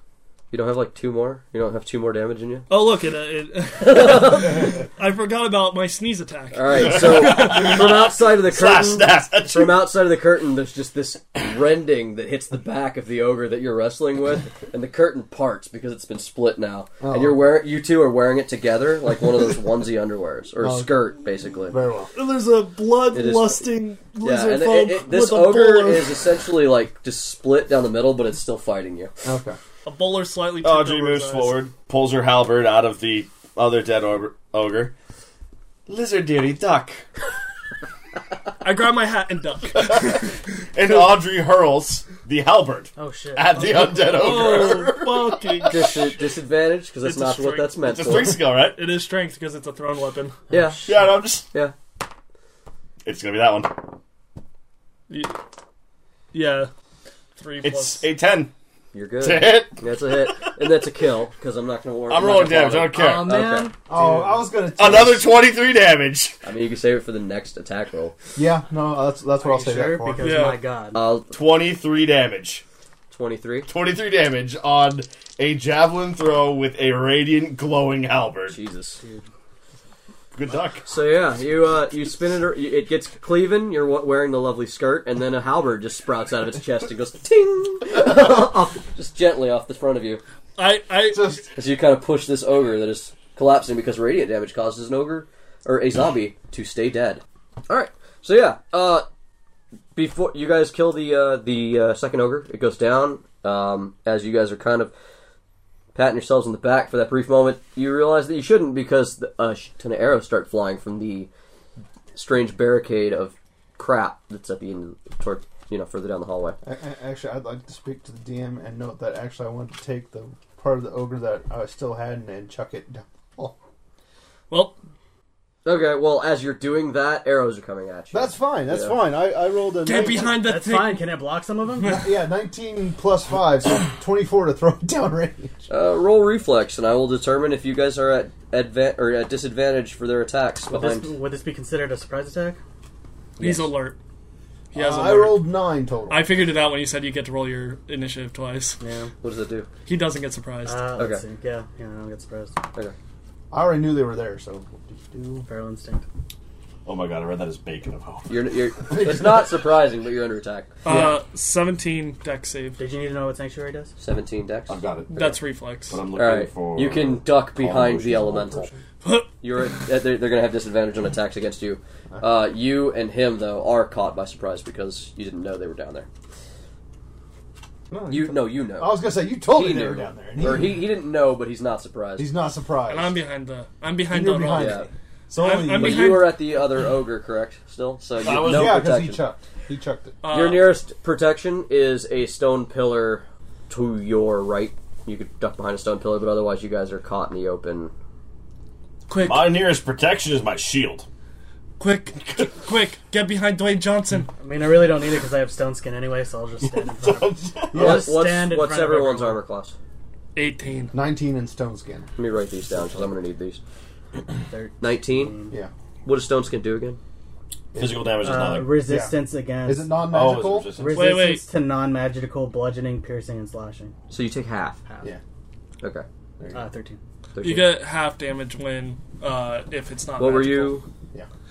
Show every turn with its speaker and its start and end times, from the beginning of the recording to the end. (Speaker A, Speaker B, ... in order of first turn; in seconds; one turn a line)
Speaker A: 0.5-2.7
Speaker B: 2.7-7.9
Speaker A: 3.8-4.6
Speaker A: 6.5-21.8
Speaker C: 7.1-9.9
Speaker D: 17.0-17.5
Speaker D: 20.6-22.1
Speaker B: 22.1-26.2
Speaker A: 23.1-23.7
Speaker A: 24.2-29.1
Speaker D: 29.2-29.6
Speaker B: 29.9-31.6
Speaker C: 30.6-34.9
Speaker C: 35.9-37.0
Speaker B: 38.6-40.4
Speaker C: 39.9-45.9
Speaker E: 43.0-44.4
Speaker B: 44.0-46.2
Speaker A: 45.7-48.4
Speaker B: 47.0-47.8
Speaker C: 47.8-48.8
Speaker B: 48.6-50.4
Speaker A: 50.5-51.7
Speaker C: 50.8-51.5
Speaker C: 53.0-53.9
Speaker B: 55.1-55.4
Speaker B: 56.3-56.7
Speaker B: 57.4-58.1
Speaker C: 57.6-58.5
Speaker A: 58.9-63.7
Speaker C: 59.2-60.5
Speaker C: 62.1-63.3
Speaker E: 62.9-64.4
Speaker D: 63.9-65.3
Speaker C: 64.8-66.4
Speaker A: 66.4-68.2
Speaker D: 68.3-70.4
Speaker E: 69.4-71.0
Speaker B: 70.2-70.6
Speaker A: 70.9-71.3
Speaker C: 71.3-72.6
Speaker A: 73.1-73.7
Speaker C: 73.7-78.6
Speaker A: 78.5-79.0
Speaker E: 79.0-79.3
Speaker C: 80.3-80.9
Speaker A: 80.9-90.2
Speaker B: 90.6-91.4
Speaker D: 91.1-91.5
Speaker A: 91.5-99.1
Speaker A: 100.0-104.9
Speaker A: 105.9-111.3
Speaker A: 112.2-116.6
Speaker D: 116.6-123.6
Speaker B: 124.5-124.8
Speaker A: 125.7-129.0
Speaker D: 128.1-130.5
Speaker B: 129.8-131.2
Speaker E: 130.4-132.1
Speaker B: 131.8-132.1
Speaker D: 131.9-135.6
Speaker A: 135.7-141.1
Speaker E: 140.7-142.6
Speaker A: 143.4-143.7
Speaker B: 143.4-144.0
Speaker B: 144.7-145.6
Speaker D: 144.7-146.3
Speaker B: 146.1-148.8
Speaker E: 148.8-149.1
Speaker A: 149.2-149.7
Speaker B: 149.9-150.9
Speaker E: 150.6-152.6
Speaker A: 151.0-151.2
Speaker D: 153.5-155.5
Speaker E: 155.4-156.1
Speaker C: 156.8-158.4
Speaker A: 158.3-161.2
Speaker D: 158.9-159.4
Speaker B: 160.8-162.8
Speaker E: 162.8-163.9
Speaker A: 164.0-164.8
Speaker C: 164.7-168.8
Speaker B: 165.1-166.0
Speaker A: 166.1-168.7
Speaker B: 169.0-169.3
Speaker A: 169.4-176.1
Speaker D: 177.9-180.9
Speaker A: 178.1-182.3
Speaker D: 182.2-183.2
Speaker B: 182.9-184.8
Speaker D: 184.1-186.3
Speaker A: 184.5-184.9
Speaker B: 185.3-186.4
Speaker A: 185.7-189.3
Speaker C: 188.2-188.8
Speaker D: 188.3-190.2
Speaker B: 190.2-190.8
Speaker A: 190.3-197.9
Speaker B: 199.1-199.6
Speaker C: 199.2-201.1
Speaker B: 201.8-204.3
Speaker E: 204.4-209.4
Speaker C: 206.7-207.9
Speaker D: 207.7-208.1
Speaker A: 207.7-209.7
Speaker B: 210.3-210.9
Speaker D: 210.9-212.1
Speaker A: 212.2-213.6
Speaker E: 214.5-215.6
Speaker A: 214.8-215.4
Speaker A: 216.1-217.0
Speaker D: 217.7-218.1
Speaker C: 217.8-218.9
Speaker E: 218.2-220.0
Speaker D: 218.8-220.8
Speaker C: 220.1-221.2
Speaker E: 220.7-223.9
Speaker B: 220.9-221.4
Speaker A: 224.1-224.8
Speaker E: 224.9-225.1
Speaker A: 225.8-226.1
Speaker E: 226.5-227.0
Speaker A: 227.3-227.8
Speaker B: 227.4-230.8
Speaker A: 230.2-230.9